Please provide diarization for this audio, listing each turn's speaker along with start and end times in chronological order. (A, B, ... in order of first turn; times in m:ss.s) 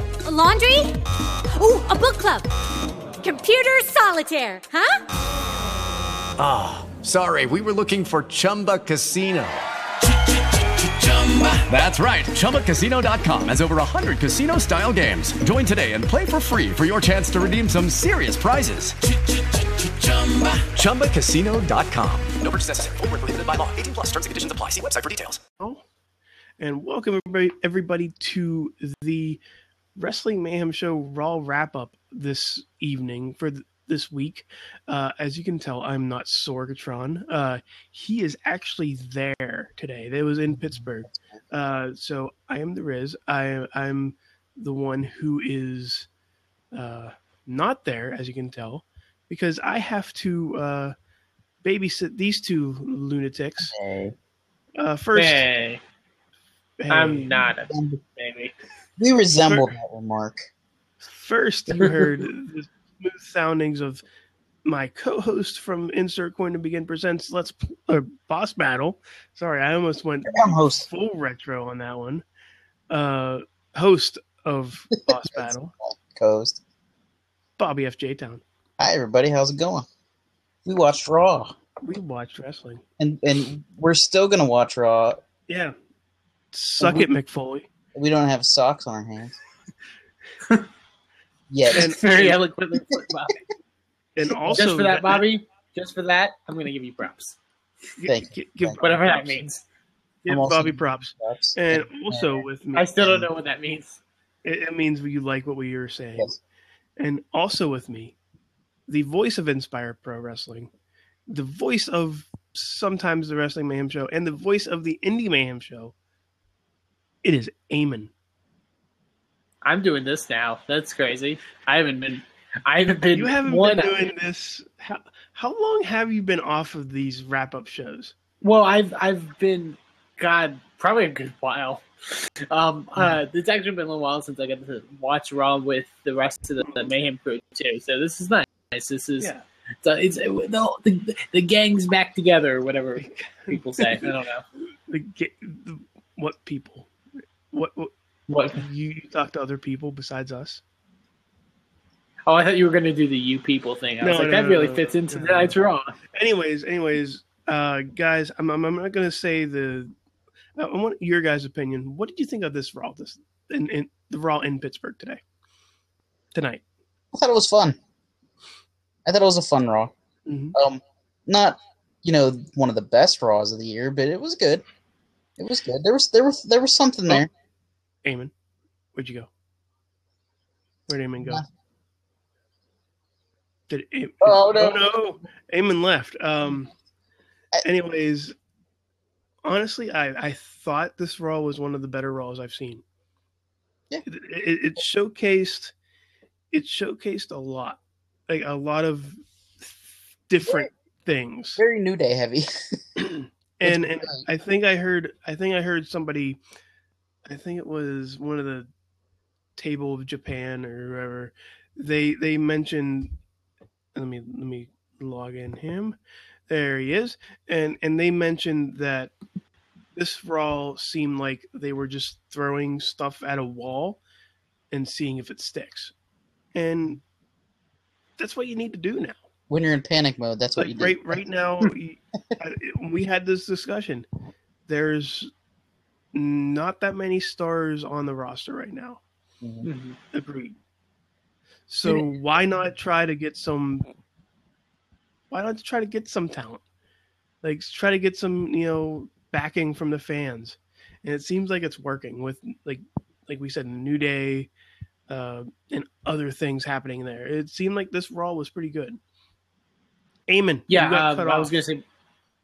0:00.2-0:00.9 A
0:01.5-0:02.5 A
0:03.2-0:04.9 A
0:06.4-0:09.6 B
0:11.0-0:19.0 B
0:19.5-0:25.4 B
0:26.6-0:29.4 C
0:30.0-0:46.1 C
0:40.7-0:41.2 D
0:46.7-0:50.9 C
0:51.6-0:53.7 C
0:53.6-0:54.1 D
0:54.8-0:55.5 C
0:55.1-0:55.8 E
0:56.8-0:57.3 C
0:56.9-0:58.5 E
0:57.7-0:58.0 D
0:59.0-1:00.5 D
0:59.4-0:59.7 C
1:01.0-1:04.0 C
1:04.6-1:12.2 C
1:10.3-1:10.9 D
1:12.9-1:15.7 C
1:15.1-1:16.6 D
1:17.6-1:18.4 C
1:18.8-1:19.8 D
1:20.6-1:21.6 D
1:21.8-1:22.8 C
1:23.0-1:25.2 D
1:25.5-1:25.7 C
1:26.5-1:27.6 C
1:26.8-1:27.0 D
1:27.9-1:29.4 D
1:31.5-1:31.9 D
1:31.7-1:33.4 E
1:31.8-1:32.4 C
1:34.1-1:35.2 C
1:34.3-1:34.6 D
1:34.6-1:37.4 E
1:38.0-1:39.4 C
1:38.0-1:38.8 D
1:38.8-1:39.6 E
1:40.2-1:43.1 C
1:40.3-1:42.5 D
1:42.7-1:44.0 E
1:43.0-1:43.3 D
1:44.4-1:46.4 C
1:47.0-1:48.1 C
1:48.9-1:50.7 C
1:51.3-1:55.9 C
1:57.2-1:58.1 C
1:59.6-2:04.0 E
2:03.1-2:08.1 C
2:08.4-2:11.8 E
2:12.5-2:19.3 E
2:19.8-2:24.4 E
2:23.0-2:24.1 C
2:24.9-2:26.9 C
2:27.5-2:27.9 C
2:28.3-2:28.6 E
2:28.5-2:30.6 C
2:32.3-2:35.9 E
2:34.0-2:35.5 C
2:36.1-2:39.9 C
2:40.6-2:45.2 C
2:46.3-2:46.6 C
2:47.1-2:47.8 D
2:49.0-2:49.9 D
2:50.3-2:50.6 C
2:50.5-2:54.6 D
2:55.4-2:57.3 D
2:58.0-2:58.3 C
2:58.9-2:59.3 C
3:00.9-3:01.4 C
3:01.2-3:01.5 D
3:03.7-3:06.7 C
3:04.2-3:04.9 D
3:07.6-3:08.3 C
3:09.4-3:12.8 C
3:14.0-3:15.7 C
3:16.5-3:21.6 C
3:21.6-3:22.4 D
3:23.0-3:26.4 C
3:23.6-3:24.2 D
3:27.2-3:28.7 C
3:29.6-3:33.1 C
3:33.9-3:36.0 C
3:36.5-3:39.1 C
3:39.9-3:44.0 C
3:44.7-3:45.9 C
3:46.5-3:47.0 C
3:48.2-3:49.2 C
3:49.5-3:51.2 D
3:50.6-3:54.0 C
3:54.7-3:55.3 C
3:56.1-3:59.0 C
3:59.4-3:59.7 D
3:59.6-4:00.0 E
4:00.1-4:00.5 C
4:01.7-4:03.8 C
4:05.3-4:06.6 C
4:07.4-4:14.5 C
4:15.1-4:19.0 C
4:20.3-4:21.5 C
4:20.7-4:21.8 E